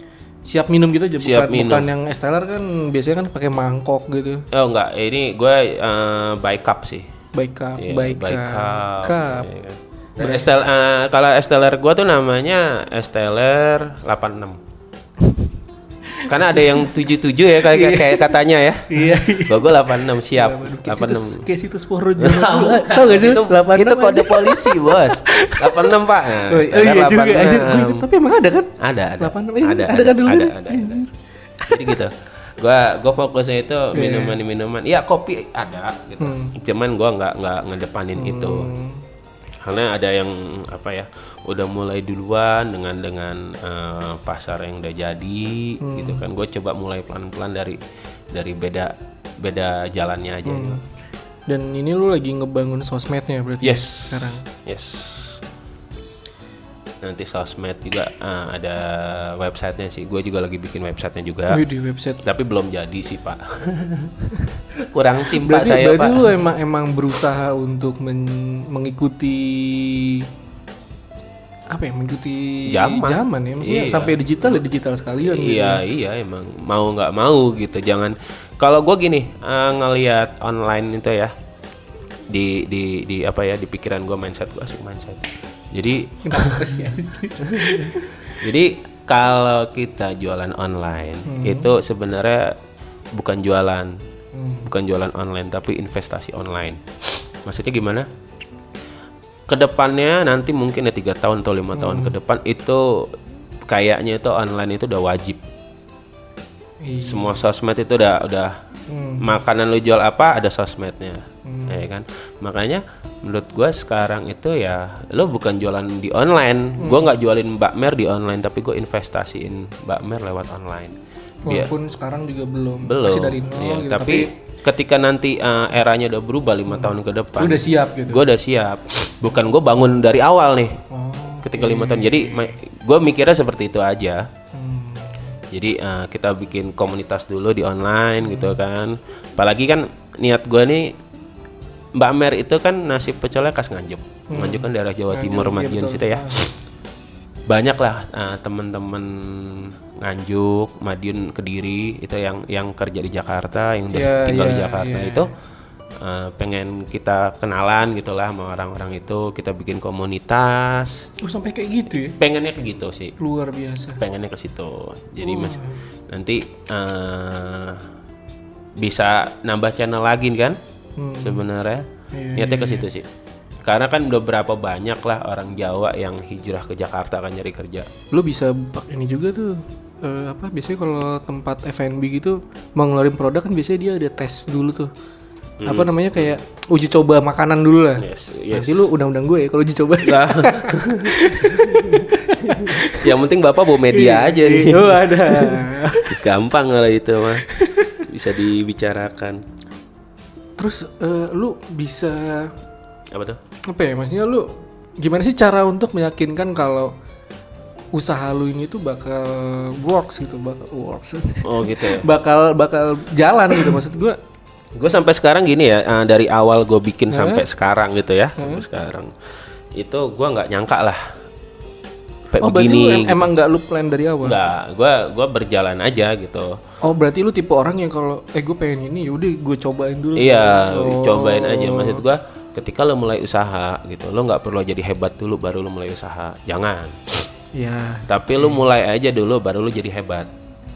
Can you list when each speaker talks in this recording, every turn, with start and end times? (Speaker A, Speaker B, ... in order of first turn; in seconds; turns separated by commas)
Speaker A: 0.4-4.5, Speaker B: 1.2-1.9, Speaker B: 4.5-7.1, Speaker A: 7.3-9.5, Speaker B: 7.8-14.6, Speaker A: 10.2-10.5, Speaker A: 15.2-15.5, Speaker A: 16.1-16.9, Speaker B: 16.3-21.4, Speaker A: 17.5-32.0, Speaker B: 22.2-28.1, Speaker B: 28.8-31.0, Speaker B: 31.7-38.7, Speaker A: 33.9-34.4, Speaker A: 36.2-36.5, Speaker A: 38.1-39.0, Speaker B: 39.6-47.8, Speaker A: 45.8-46.2, Speaker B: 48.3-50.8, Speaker A: 50.4-50.8, Speaker A: 51.5-54.4, Speaker B: 53.6-55.4, Speaker B: 57.0-61.6, Speaker A: 61.5-62.2, Speaker B: 62.2-64.2, Speaker B: 64.7-66.3, Speaker A: 65.3-70.3, Speaker A: 71.7-75.8, Speaker B: 72.7-74.6, Speaker B: 75.2-81.3, Speaker B: 82.3-92.6, Speaker A: 86.2-88.4, Speaker A: 91.2-91.7, Speaker B: 93.1-94.0, Speaker A: 94.3-94.7, Speaker B: 94.6-96.8, Speaker B: 97.4-98.1, Speaker B: 99.5-103.1, Speaker A: 101.7-102.1, Speaker B: 103.7-105.4, Speaker A: 106.8-107.3, Speaker B: 107.0-108.6, Speaker A: 108.9-109.3, Speaker B: 109.2-121.0, Speaker A: 111.5-111.8, Speaker A: 116.8-117.1, Speaker A: 121.5-124.3, Speaker B: 122.8-130.8, Speaker A: 126.7-128.2, Speaker A: 130.9-132.6, Speaker B: 131.4-134.3, Speaker A: 134.5-135.3, Speaker B: 135.5-140.9, Speaker A: 138.2-138.6, Speaker B: 141.9-146.5, Speaker A: 144.3-146.5, Speaker B: 147.5-155.3, Speaker A: 153.9-155.3, Speaker B: 156.0-161.1, Speaker A: 161.2-162.2, Speaker B: 162.2-163.2, Speaker A: 163.2-164.0, Speaker B: 164.0-167.8, Speaker A: 165.2-165.8, Speaker B: 168.8-170.6, Speaker A: 171.0-171.4, Speaker B: 171.2-173.1, Speaker A: 172.1-172.9, Speaker B: 173.6-177.9, Speaker A: 178.1-184.9, Speaker B: 185.6-186.3, Speaker A: 185.6-193.1, Speaker B: 188.0-188.9, Speaker B: 190.0-197.4, Speaker A: 193.9-196.2, Speaker A: 197.5-198.1, Speaker B: 198.1-199.4, Speaker A: 200.6-202.5, Speaker B: 203.1-203.4, Speaker A: 203.7-206.9, Speaker A: 207.9-214.2, Speaker B: 211.4-212.1, Speaker B: 214.7-219.1, Speaker A: 217.1-217.4, Speaker A: 218.4-218.6, Speaker B: 219.8-221.0, Speaker B: 222.3-223.3, Speaker A: 222.4-224.4, Speaker B: 224.2-226.6, Speaker A: 226.8-232.0, Speaker B: 230.2-237.3, Speaker A: 237.5-238.6, Speaker B: 238.1-240.3